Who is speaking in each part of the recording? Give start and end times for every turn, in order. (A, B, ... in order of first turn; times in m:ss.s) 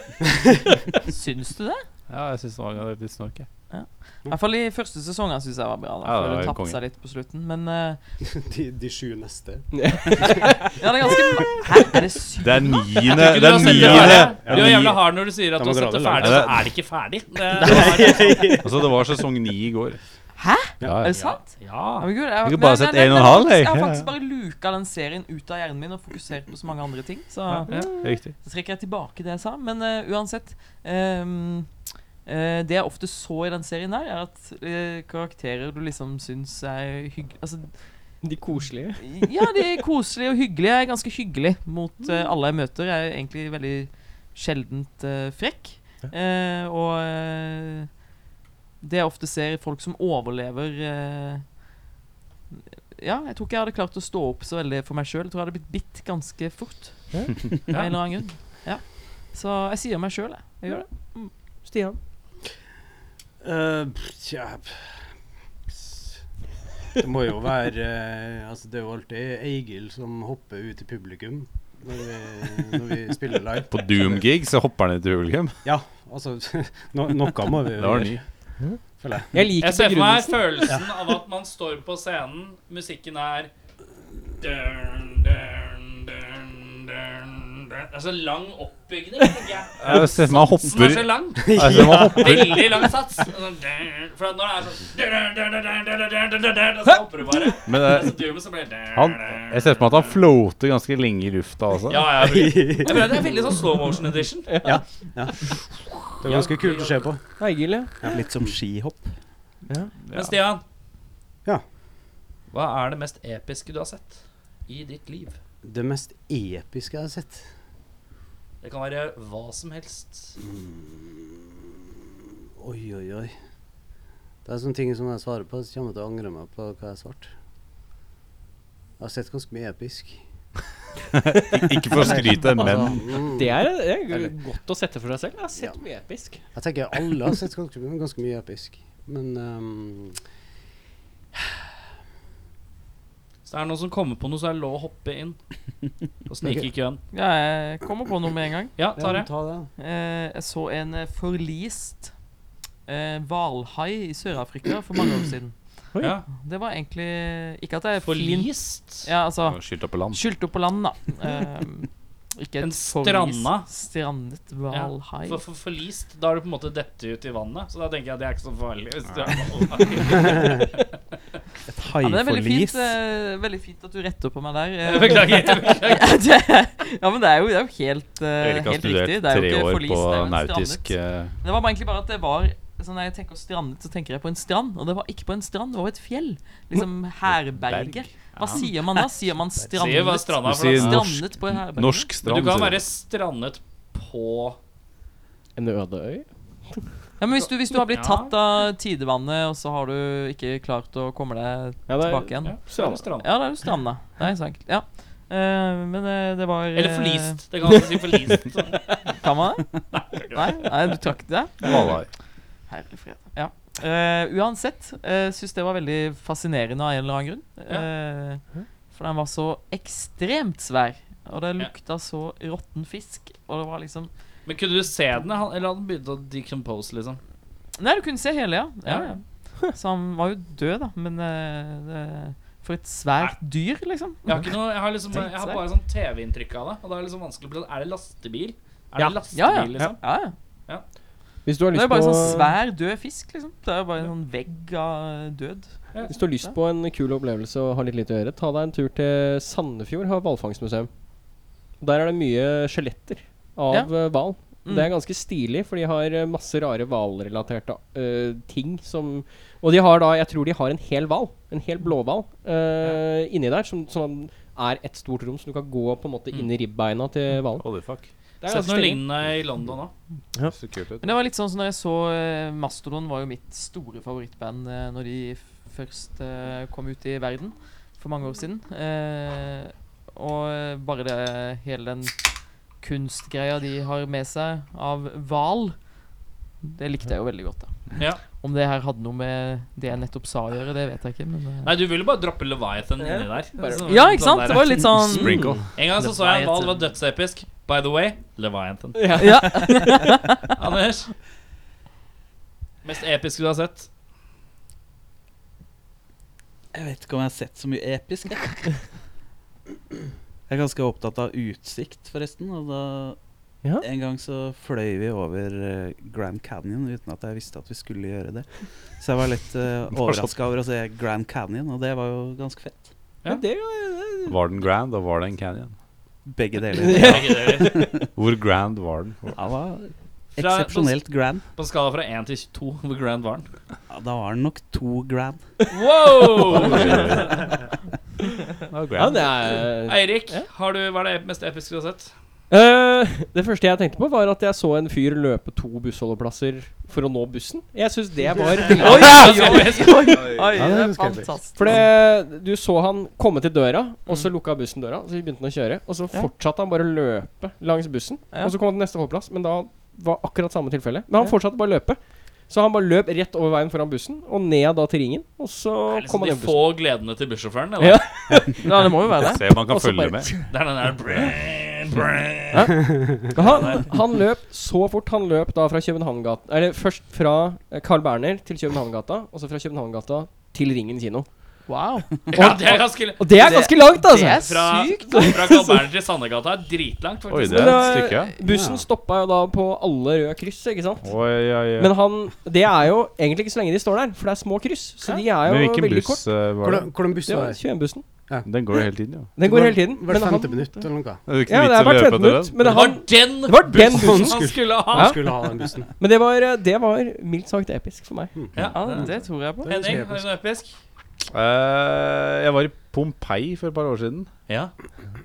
0:01.0-0:01.8 A
0:02.1-0:03.5 B
0:03.7-0:08.0 A
0:06.0-0:06.8 B
0:08.2-0:10.5 C
0:09.7-0:10.6 D
0:10.2-0:14.2 A
0:11.1-0:11.4 D
0:12.4-0:15.0 B
0:13.1-0:18.5 E
0:14.1-0:16.6 C
0:16.2-0:16.7 B
0:17.6-0:18.4 A
0:17.7-0:19.0 C
0:18.5-0:20.0 B
0:20.4-0:31.7 A
0:20.8-0:21.1 B
0:21.1-0:22.1 E
0:22.4-0:24.1 B
0:28.0-0:28.3 B
0:32.2-0:37.7 A
0:38.2-0:39.2 D
0:39.0-0:47.9 A
0:48.8-0:51.6 A
0:52.5-1:01.3 A
0:57.7-0:58.0 E
1:01.6-1:02.0 D
1:03.4-1:04.9 C
1:05.7-1:06.2 C
1:06.9-1:14.2 C
1:13.7-1:15.6 B
1:15.6-1:18.2 C
1:17.2-1:18.2 B
1:19.0-1:19.5 C
1:19.3-1:20.7 D
1:19.6-1:23.5 E
1:20.6-1:21.0 C
1:24.4-1:31.6 E
1:29.8-1:32.7 B
1:31.4-1:32.9 C
1:32.1-1:40.1 E
1:37.6-1:38.2 B
1:38.9-1:42.1 B
1:41.9-1:44.7 E
1:42.2-1:43.3 C
1:44.5-1:44.8 D
1:44.6-1:45.5 C
1:46.0-1:47.4 C
1:46.2-1:47.0 E
1:47.4-1:48.0 D
1:48.0-1:48.5 C
1:48.0-1:49.1 F
1:49.7-1:49.9 D
1:50.1-1:50.6 E
1:52.5-1:55.4 E
1:55.6-1:57.4 C
1:58.6-2:00.4 E
2:00.4-2:01.4 C
2:02.6-2:03.3 C
2:04.4-2:07.3 C
2:09.0-2:10.2 C
2:11.3-2:13.1 B
2:11.9-2:14.3 C
2:13.3-2:17.1 D
2:15.5-2:15.8 C
2:16.5-2:20.2 C
2:23.5-2:25.4 E
2:26.3-2:27.0 E
2:26.4-2:26.7 C
2:27.1-2:28.9 A
2:28.8-2:29.3 E
2:28.9-2:29.7 C
2:29.8-2:32.2 A
2:32.8-2:35.6 A
2:36.0-2:36.2 E
2:36.3-2:45.4 A
2:38.0-2:39.1 E
2:39.4-2:40.2 B
2:42.6-2:43.7 E
2:44.7-2:51.0 E
2:51.7-2:52.9 F
2:52.0-3:12.1 A
2:54.8-2:56.1 E
2:58.4-3:01.3 B
3:07.2-3:08.1 B
3:08.4-3:08.7 E
3:09.7-3:11.0 E
3:10.4-3:12.8 B
3:12.2-3:14.6 E
3:15.6-3:16.9 D
3:17.2-3:27.4 A
3:17.9-3:18.4 E
3:21.9-3:23.0 D
3:22.4-3:23.3 E
3:26.7-3:29.0 E
3:29.1-3:32.0 A
3:29.9-3:30.6 E
3:31.6-3:32.1 B
3:32.6-3:44.1 A
3:44.4-3:47.2 E
3:47.8-3:54.5 A
3:48.8-3:49.1 E
3:54.2-4:00.0 E
3:55.1-3:55.6 A
3:59.0-3:59.9 D
3:59.3-4:00.3 A
4:01.4-4:02.6 D
4:01.7-4:05.9 A
4:06.1-4:10.9 D
4:11.8-4:27.7 D
4:13.7-4:14.1 A
4:14.6-4:14.9 A
4:27.6-4:28.1 B
4:28.4-4:29.0 D
4:28.4-4:29.9 E
4:30.5-4:31.1 B
4:31.0-4:45.9 A
4:46.6-4:51.7 A
4:51.6-4:55.0 E
4:53.0-4:54.3 D
4:53.8-4:56.8 A
4:54.9-4:55.6 B
4:55.1-4:55.6 D
4:55.7-4:59.6 E
4:59.0-5:00.0 D
4:59.2-5:00.4 A
5:00.5-5:01.1 E
5:02.8-5:03.9 E
5:06.7-5:08.8 F
5:10.5-5:13.2 F
5:13.7-5:22.9 F
5:20.0-5:20.3 B
5:23.2-5:24.4 D
5:24.2-5:25.8 B
5:26.2-5:28.1 F
5:26.8-5:27.9 D
5:26.9-5:27.7 E
5:28.1-5:29.4 B
5:29.3-5:31.4 F
5:30.4-5:33.5 E
5:33.9-5:35.4 F
5:35.7-5:37.3 E
5:36.2-5:36.6 D
5:36.5-5:37.5 B
5:38.7-5:39.4 B
5:39.0-5:40.5 D
5:39.8-5:42.1 E
5:42.5-5:49.7 D
5:48.7-5:51.8 A
5:48.8-5:50.4 E
5:50.5-5:51.3 C
5:51.6-6:06.7 D
6:05.9-6:08.0 E
6:07.8-6:09.0 D
6:08.5-6:09.4 A
6:09.2-6:10.4 B
6:09.7-6:12.8 E
6:09.8-6:10.3 D
6:12.5-6:21.3 D
6:12.9-6:13.3 C
6:13.3-6:13.9 E
6:21.7-6:22.1 A
6:22.3-6:27.9 E
6:22.3-6:24.5 D
6:23.3-6:25.3 A
6:25.1-6:25.8 D
6:27.3-6:28.3 B
6:27.5-6:36.4 D
6:28.4-6:28.8 C
6:31.0-6:32.0 B
6:35.4-6:36.9 B
6:36.6-6:37.6 C
6:37.2-6:38.0 D
6:38.4-6:39.3 B
6:39.4-6:40.9 D
6:39.4-6:41.2 C
6:41.3-6:42.6 B
6:41.4-6:48.4 D
6:42.6-6:45.1 E
6:43.7-6:45.9 C
6:48.3-6:50.3 C
6:48.5-6:50.8 E
6:48.7-6:49.9 A
6:51.3-6:54.3 B
6:54.5-6:54.7 E